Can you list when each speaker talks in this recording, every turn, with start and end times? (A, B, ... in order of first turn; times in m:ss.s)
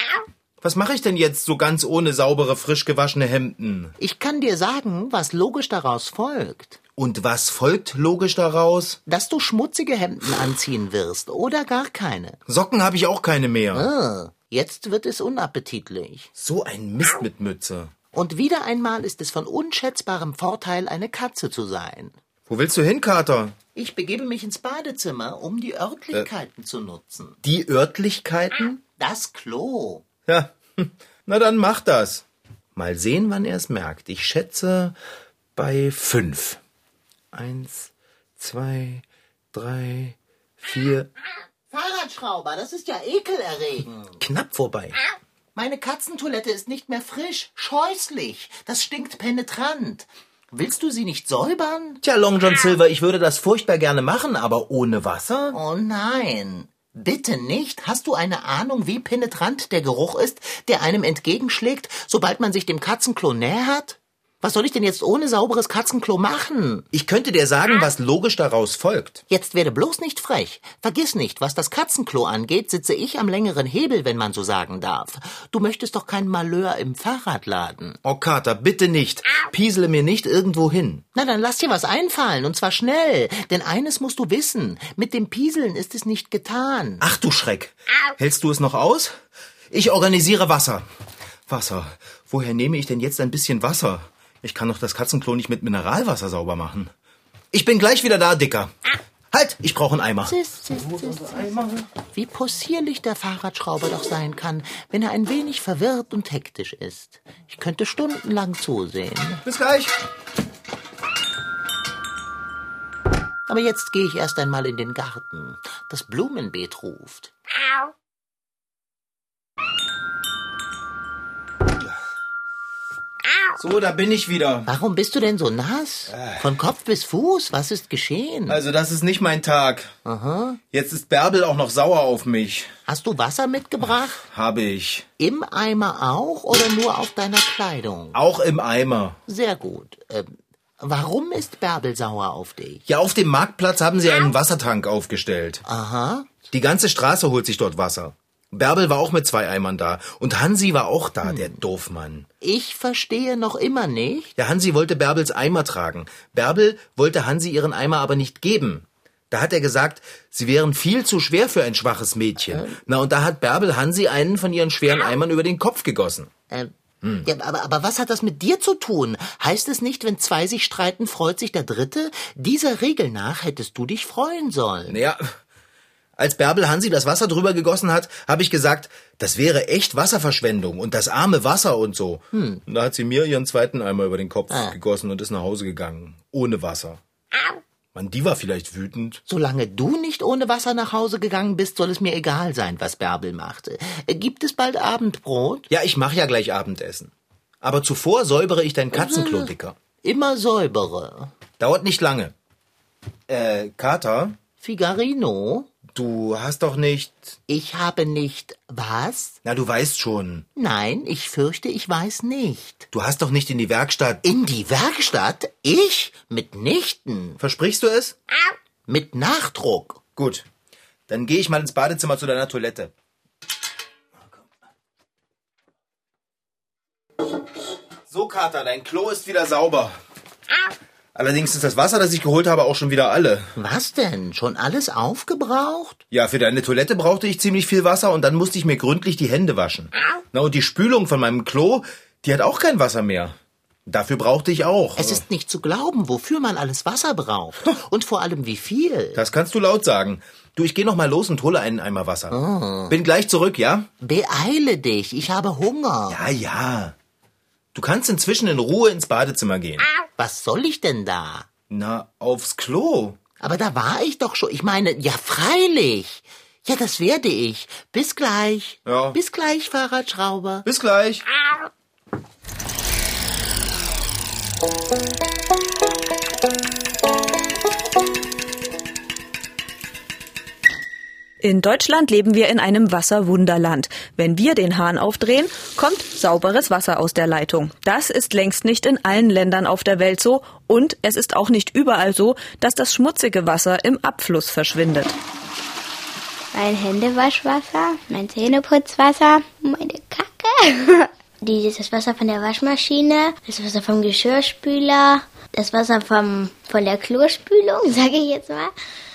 0:00.6-0:03.9 A
0:04.0-0:06.8 B
0:07.0-0:09.0 A
0:09.0-0:12.4 B
0:12.5-0:13.9 A
0:13.7-0:16.3 B
0:16.4-0:17.9 A
0:18.1-0:22.2 B
0:22.5-0:23.6 A
0:23.7-0:27.4 B
0:27.4-0:28.8 A
0:28.9-0:30.0 B
0:30.3-0:32.2 A
0:32.8-0:35.0 A
0:35.6-0:36.6 A
0:37.3-0:41.1 A
0:41.7-0:44.2 B
0:44.2-0:45.0 A
0:45.5-0:52.0 B
0:52.0-0:55.6 A
0:55.5-1:06.9 B
1:06.9-1:09.2 A
1:09.3-1:18.0 B
1:18.0-1:21.0 A
1:21.1-1:27.0 B
1:27.0-1:29.2 A
1:29.7-1:30.8 A
1:31.5-1:36.9 A
1:37.5-1:38.7 A
1:39.3-1:41.9 A
1:40.2-1:41.4 B
1:42.1-1:49.4 B
1:49.4-1:50.0 A
1:53.5-1:57.3 B
2:03.6-2:04.7 A
2:04.7-2:08.6 B
2:06.1-2:06.5 A
2:08.5-2:09.9 A
2:10.0-2:10.6 B
2:10.7-2:12.7 A
2:12.9-2:14.2 B
2:14.3-2:15.1 A
2:15.2-2:18.2 B
2:18.1-2:19.2 A
2:19.3-2:22.8 B
2:22.9-2:25.6 A
2:25.6-2:26.3 B
2:26.5-2:32.3 A
2:31.2-2:31.5 B
2:32.4-2:34.3 B
2:34.4-2:46.3 A
2:42.5-2:42.8 B
2:47.0-2:47.3 A
2:47.2-2:55.0 B
2:54.9-2:55.3 A
2:56.2-3:07.0 A
3:02.3-3:02.6 B
3:04.5-3:04.8 B
3:07.9-3:09.2 A
3:09.3-3:15.7 B
3:15.7-3:19.8 A
3:18.9-3:21.3 B
3:21.6-3:22.3 A
3:23.3-3:24.4 A
3:24.6-3:25.7 B
3:25.9-3:27.4 A
3:27.5-3:29.4 B
3:29.4-3:30.5 A
3:30.6-3:32.9 B
3:32.9-3:34.2 A
3:34.2-3:37.4 B
3:37.4-3:38.2 A
3:38.9-3:40.0 B
3:40.2-3:40.4 A
3:41.1-3:42.9 A
3:48.1-3:50.0 A
3:51.1-3:53.5 A
3:53.6-3:56.0 B
3:56.1-4:05.2 A
4:05.0-4:09.2 B
4:09.2-4:12.4 A
4:12.3-4:13.0 B
4:12.9-4:13.9 A
4:14.0-4:16.2 B
4:16.1-4:17.0 A
4:17.7-4:19.9 A
4:20.2-4:21.5 B
4:21.7-4:23.2 A
4:23.4-4:30.6 B
4:28.8-4:29.2 A
4:30.6-4:31.2 A
4:41.4-4:55.2 C
4:56.5-5:08.7 D